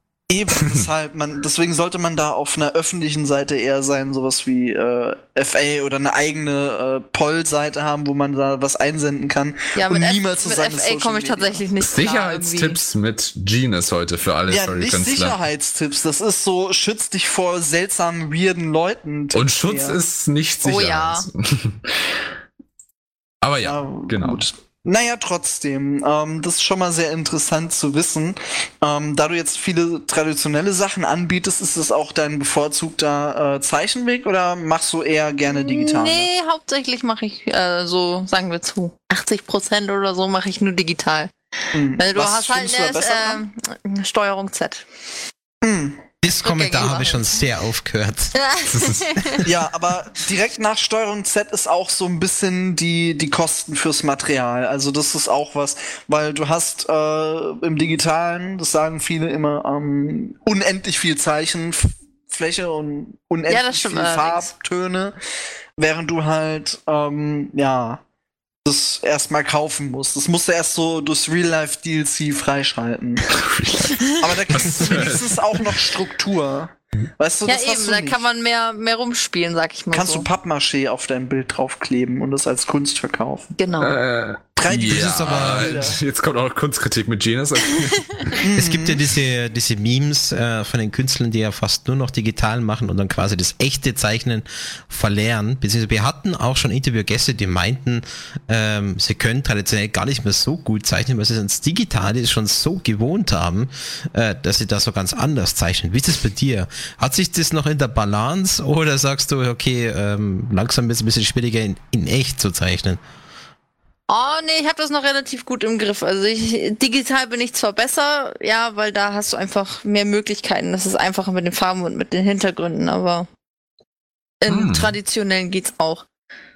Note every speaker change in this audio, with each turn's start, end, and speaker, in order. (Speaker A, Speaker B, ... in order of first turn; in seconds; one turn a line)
Speaker A: 0.3-11.5
Speaker B: 9.8-12.8
Speaker C: 11.8-15.4
Speaker A: 14.5-20.0
Speaker C: 19.3-21.9
Speaker B: 20.6-21.3
Speaker C: 23.4-24.5
Speaker A: 23.6-36.3
Speaker B: 35.5-41.3
Speaker A: 41.7-43.4
Speaker B: 42.0-44.9
Speaker A: 45.6-46.0
Speaker D: 46.2-48.4
Speaker B: 46.3-47.4
Speaker B: 48.3-49.4
Speaker C: 48.7-49.1
Speaker A: 49.4-65.2
Speaker B: 63.5-64.5
Speaker A: 65.8-68.0
Speaker A: 68.7-73.3
Speaker C: 73.3-75.8
Speaker A: 74.2-78.2
Speaker B: 77.5-80.3
Speaker A: 79.9-83.5
Speaker B: 83.6-84.0
Speaker C: 83.8-88.5
Speaker A: 84.6-86.0
Speaker D: 84.9-86.0
Speaker A: 88.4-89.0
Speaker D: 88.5-113.0
Speaker B: 114.1-123.3
Speaker B: 124.4-126.1
Speaker C: 124.5-125.0